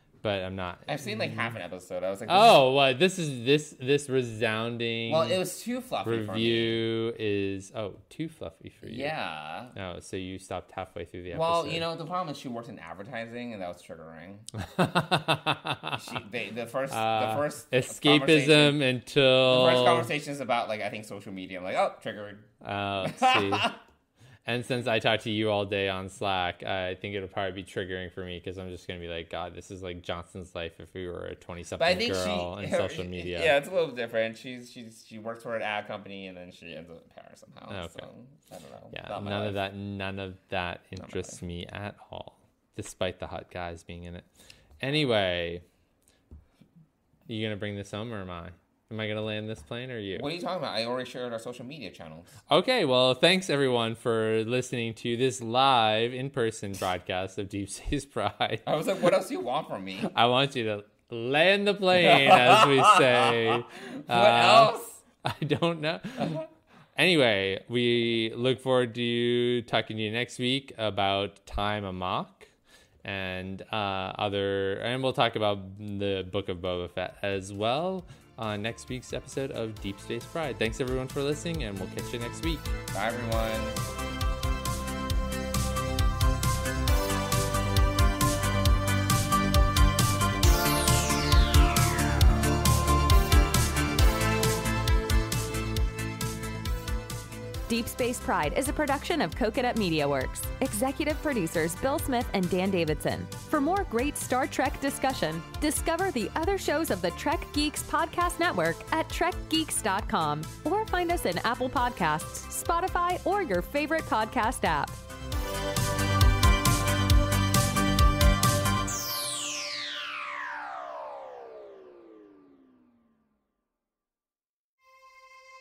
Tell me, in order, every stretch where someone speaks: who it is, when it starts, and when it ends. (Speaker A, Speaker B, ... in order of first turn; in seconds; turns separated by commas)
Speaker A: 0.2-1.5, Speaker B: 0.9-2.6, Speaker A: 2.3-5.4, Speaker B: 5.1-6.8, Speaker A: 6.0-9.1, Speaker B: 8.8-9.8, Speaker A: 9.7-11.9, Speaker B: 11.3-14.5, Speaker A: 14.6-16.0, Speaker B: 15.9-18.8, Speaker A: 16.9-20.1, Speaker B: 19.4-23.8, Speaker A: 22.6-23.7, Speaker A: 24.5-33.6, Speaker B: 31.8-39.6, Speaker A: 37.7-38.1, Speaker A: 38.9-44.3, Speaker B: 41.0-41.4, Speaker A: 44.8-45.6, Speaker A: 47.3-50.3, Speaker B: 50.1-52.4, Speaker A: 52.5-58.7, Speaker B: 58.6-60.1, Speaker A: 60.0-66.5, Speaker B: 61.9-65.0, Speaker B: 66.2-66.5, Speaker A: 67.0-72.5, Speaker A: 73.0-82.8, Speaker B: 82.9-83.8, Speaker C: 97.7-115.0